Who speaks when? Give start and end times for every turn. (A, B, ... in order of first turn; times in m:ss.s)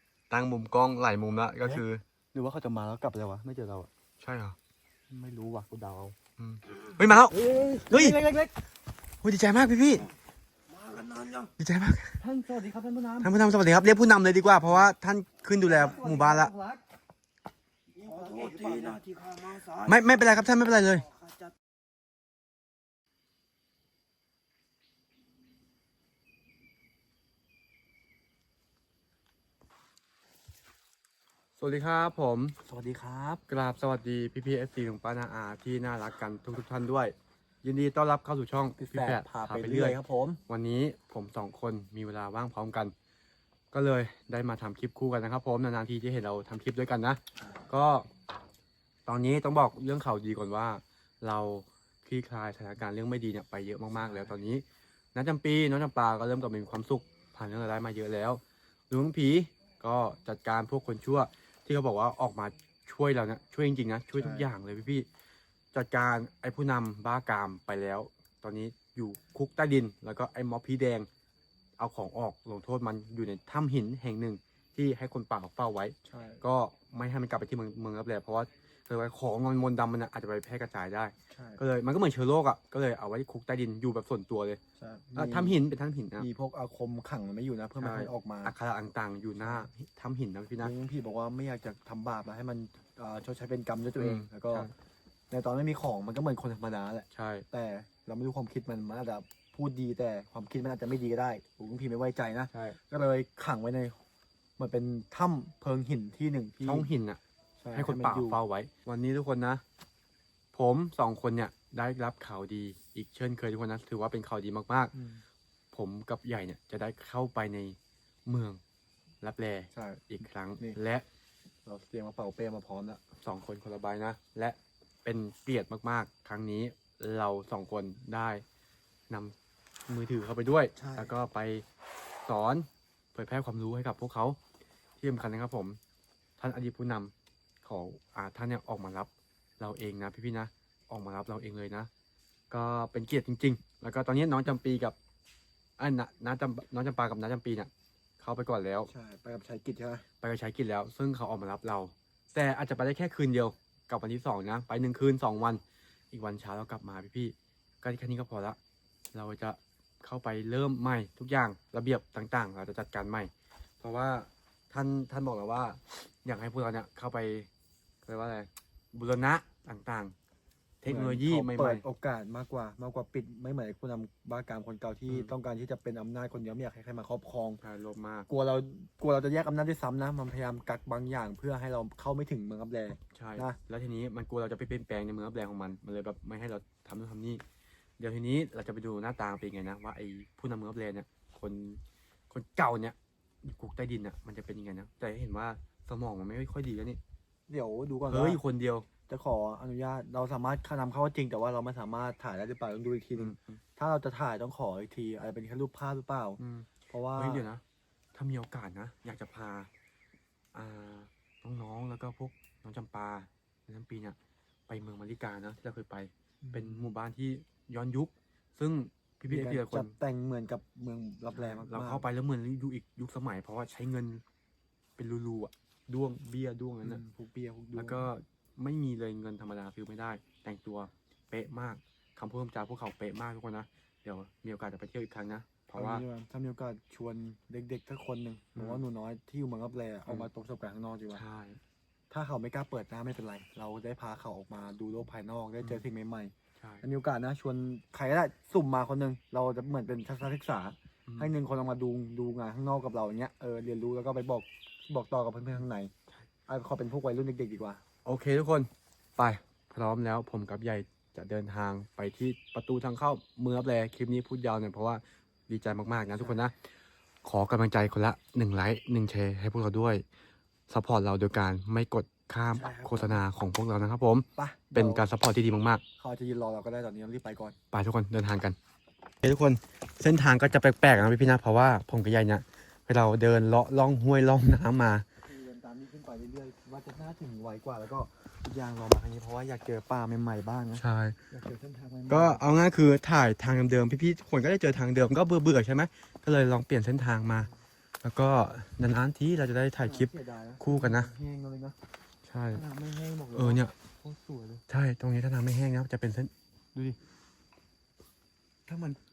0:00.3-0:02.0 A
0:01.6-0:03.9 B
0:04.2-0:04.6 A
0:05.1-0:06.2 B
0:06.4-0:08.2 A
0:07.1-0:08.5 B
0:09.2-0:10.1 A
0:10.7-0:11.5 C
0:11.6-0:12.2 A
0:12.2-0:13.4 B
0:13.2-0:16.5 A
0:14.6-0:14.9 B
0:15.6-0:16.8 B
0:17.9-0:19.0 B
0:18.0-0:20.0 C
0:19.8-0:21.0 A
0:20.7-0:21.5 C
0:31.6-0:32.6 A
0:32.6-0:33.4 B
0:33.5-0:42.9 A
0:38.8-0:40.4 B
0:43.7-0:48.1 A
0:49.0-0:54.6 A
0:53.9-0:54.4 B
0:55.1-1:05.1 A
1:04.1-1:04.5 B
1:05.7-1:11.1 A
1:11.8-1:24.6 A
1:16.0-1:16.4 B
1:21.3-1:21.6 B
1:24.8-1:25.6 B
1:25.1-1:26.3 A
1:26.2-1:28.5 B
1:27.8-1:30.7 A
1:29.4-1:29.7 B
1:30.6-1:34.7 B
1:34.0-1:34.7 A
1:35.3-1:44.0 B
1:37.1-1:37.4 A
1:44.6-1:46.9 B
1:46.6-1:47.2 A
1:47.6-1:48.4 B
1:47.7-1:49.6 A
1:50.5-1:54.9 A
1:54.9-1:55.2 B
1:55.7-1:58.6 A
1:59.2-2:01.0 A
1:59.7-2:00.8 B
2:01.6-2:03.0 B
2:03.2-2:08.4 A
2:09.1-2:09.4 A
2:09.9-2:11.6 A
2:10.8-2:11.1 B
2:12.2-2:14.4 A
2:15.0-2:15.8 A
2:16.4-2:21.9 A
2:22.5-2:25.0 A
2:25.8-2:28.9 A
2:28.9-2:30.0 B
2:30.2-2:38.6 A
2:39.1-2:47.5 A
2:48.0-2:50.1 A
2:50.8-2:51.8 A
2:50.9-2:57.6 B
2:55.1-2:55.3 A
2:57.6-2:58.3 A
2:58.3-3:03.6 B
3:03.1-3:07.4 A
3:08.0-3:17.0 A
3:17.5-3:18.4 B
3:18.1-3:18.9 A
3:19.1-3:27.4 B
3:23.1-3:23.6 A
3:26.4-3:27.6 A
3:28.1-3:29.7 A
3:30.5-3:34.2 A
3:34.7-3:39.9 A
3:36.4-3:36.8 B
3:39.3-3:42.1 B
3:41.3-3:44.2 A
3:45.0-3:47.0 A
3:46.8-3:48.0 B
3:47.7-3:56.0 A
3:55.7-4:01.2 B
3:58.5-3:58.8 A
4:01.1-4:01.6 A
4:02.1-4:15.9 B
4:06.6-4:06.8 A
4:11.1-4:11.3 A
4:16.5-4:17.8 B
4:18.0-4:26.6 A
4:26.2-4:26.5 B
4:27.2-4:30.0 A
4:30.7-4:35.8 A
4:32.5-4:33.2 B
4:34.4-4:35.0 B
4:36.0-4:37.6 B
4:37.7-4:38.6 A
4:39.2-4:45.1 A
4:45.2-4:52.4 B
4:50.7-4:51.2 A
4:52.1-4:57.5 A
4:58.0-5:01.1 A
4:59.8-5:01.8 B
5:02.3-5:02.6 A
5:02.5-5:04.6 B
5:03.3-5:03.7 A
5:04.7-5:06.3 A
5:08.7-5:09.0 B